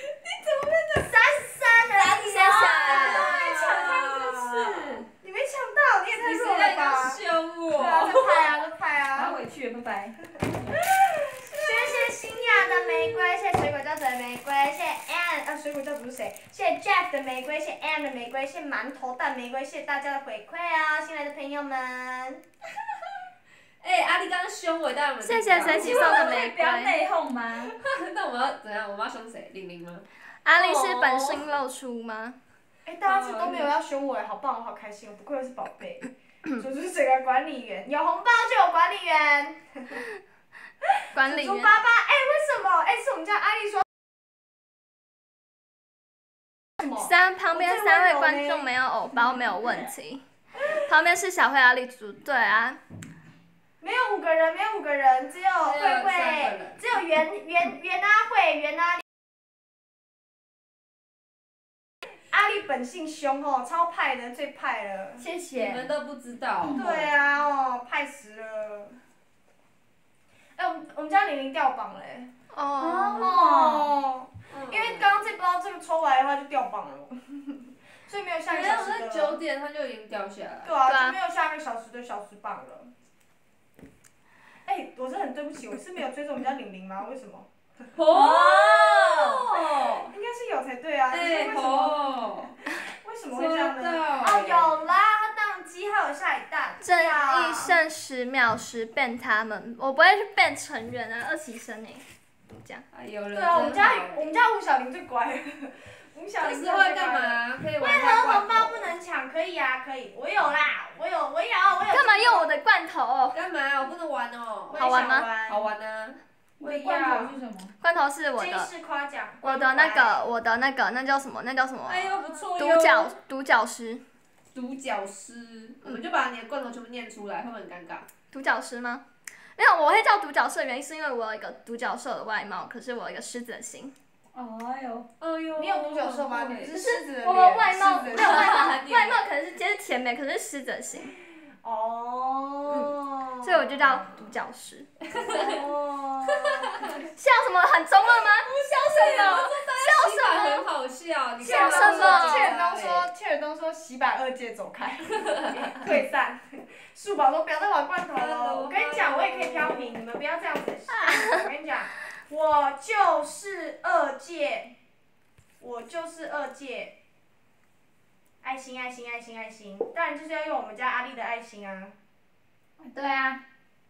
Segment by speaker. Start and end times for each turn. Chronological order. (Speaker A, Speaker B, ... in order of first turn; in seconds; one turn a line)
Speaker A: 0.3-1.0
Speaker B: 0.9-4.4
Speaker C: 1.9-3.4
Speaker D: 2.2-5.1
Speaker A: 2.3-4.9
Speaker B: 5.1-7.2
Speaker A: 6.1-8.5
Speaker B: 7.7-9.4
Speaker D: 9.1-10.2
Speaker B: 10.9-22.4
Speaker A: 11.7-12.1
Speaker A: 23.8-26.4
Speaker C: 25.2-27.0
Speaker D: 25.7-27.8
Speaker A: 27.8-31.4
Speaker C: 30.4-32.4
Speaker B: 32.9-40.0
Speaker A: 33.0-33.7
Speaker C: 41.1-41.8
Speaker B: 41.2-43.9
Speaker B: 46.8-48.7
Speaker C: 46.9-50.2
Speaker C: 50.7-52.8
Speaker B: 53.8-59.0
Speaker A: 55.6-56.8
Speaker B: 62.3-65.2
Speaker D: 65.2-65.9
Speaker A: 65.5-67.2
Speaker D: 66.6-67.1
Speaker B: 66.7-69.0
Speaker B: 70.6-72.3
Speaker C: 72.5-73.5
Speaker D: 72.8-73.9
Speaker B: 73.1-79.4
Speaker A: 74.5-75.1
Speaker A: 78.5-80.7
Speaker B: 80.6-82.9
Speaker C: 80.8-81.2
Speaker B: 84.7-87.8
Speaker A: 88.0-89.9
Speaker D: 88.0-90.1
Speaker B: 90.0-97.8
Speaker A: 91.1-92.6
Speaker A: 93.3-94.8
Speaker C: 96.8-102.8
Speaker A: 102.9-104.3
Speaker B: 103.3-112.5
Speaker A: 106.4-108.9
Speaker C: 111.9-113.4
Speaker A: 113.3-114.8
Speaker B: 114.7-115.7
Speaker C: 114.7-115.3
Speaker A: 115.5-116.2
Speaker D: 116.6-117.7
Speaker B: 116.6-117.4
Speaker C: 117.8-118.7
Speaker B: 118.4-120.3
Speaker C: 119.4-124.0
Speaker A: 121.9-123.2
Speaker D: 122.0-123.0
Speaker A: 124.5-128.1
Speaker C: 128.3-129.1
Speaker C: 129.6-133.9
Speaker D: 134.3-135.1
Speaker A: 135.2-136.7
Speaker B: 135.6-138.8
Speaker C: 136.7-141.2
Speaker A: 138.1-139.2
Speaker B: 141.6-144.0
Speaker C: 142.7-144.9
Speaker A: 145.1-145.6
Speaker B: 145.1-147.0
Speaker A: 146.4-146.9
Speaker C: 147.2-150.7
Speaker A: 148.4-153.1
Speaker B: 151.4-164.8
Speaker C: 151.4-152.6
Speaker A: 158.2-160.0
Speaker C: 161.0-161.4
Speaker B: 165.6-167.0
Speaker B: 168.4-171.9
Speaker D: 172.8-173.4